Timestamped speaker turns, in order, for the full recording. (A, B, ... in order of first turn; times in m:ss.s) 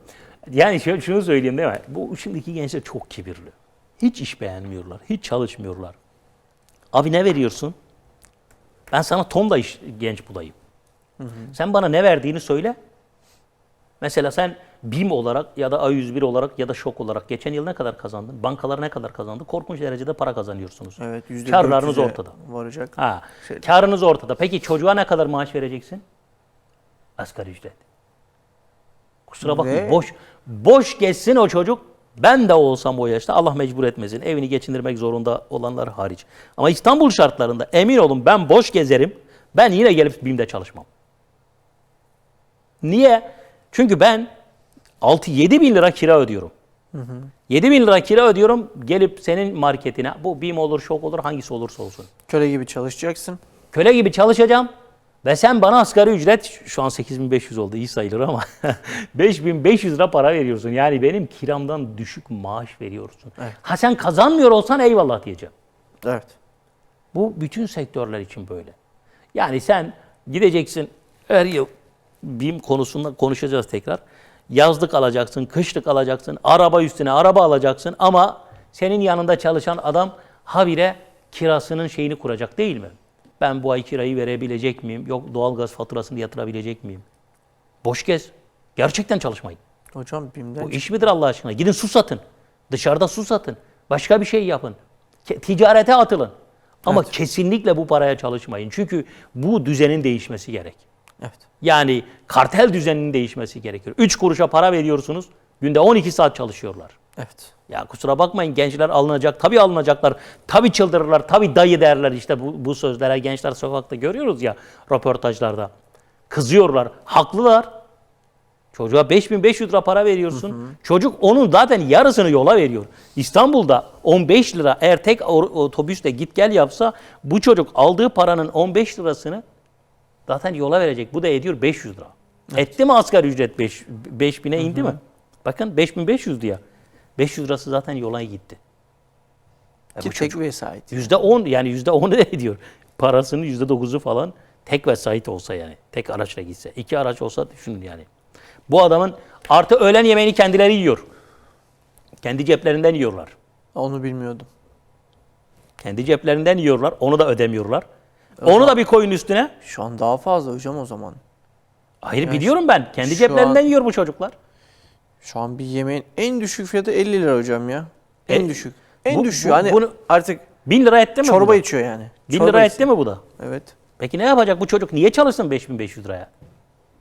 0:00.5-0:06.0 A
0:06.9-0:07.8 A
0:08.9-0:10.6 A
0:11.2-0:11.6 B
0:11.5-0:12.8 A
0:14.0-0:22.3 A
0:21.0-0:23.6 B
0:23.0-0:26.0 A
0:27.2-0:27.8 A
0:29.3-0:40.9 A
0:29.4-0:30.0 B
0:42.8-0:44.3 A
0:45.0-0:46.5 A
0:46.9-0:47.3 B
0:47.5-0:52.1 A
0:52.3-0:53.4 B
0:53.7-0:54.7 A
0:55.2-1:05.5 A
1:06.0-1:06.4 B
1:07.1-1:08.8 A
1:09.3-1:11.7 A
1:12.2-1:27.0 A
1:27.8-1:29.6 A
1:30.0-1:30.8 B
1:30.6-1:36.3 A
1:36.9-1:40.8 A
1:41.6-1:46.9 A
1:47.2-1:47.5 B
1:47.7-1:55.7 A
1:56.3-1:57.7 A
1:58.7-2:09.4 A
2:00.5-2:00.7 B
2:10.3-2:16.6 A
2:14.6-2:15.0 B
2:17.2-2:18.6 A
2:19.9-2:20.4 A
2:20.0-2:21.1 B
2:20.9-2:28.1 A
2:28.7-2:31.0 A
2:32.2-2:33.3 A
2:33.8-2:34.5 B
2:35.8-2:37.8 A
2:38.4-2:38.8 B
2:38.4-2:39.5 A
2:39.6-2:41.2 B
2:42.0-2:44.4 A
2:42.2-2:43.6 B
2:45.2-2:50.4 B
2:49.1-2:50.0 A
2:50.7-2:51.6 A
2:51.2-2:52.9 B
2:52.3-2:53.2 A
2:53.4-2:53.7 B
2:54.0-2:56.3 A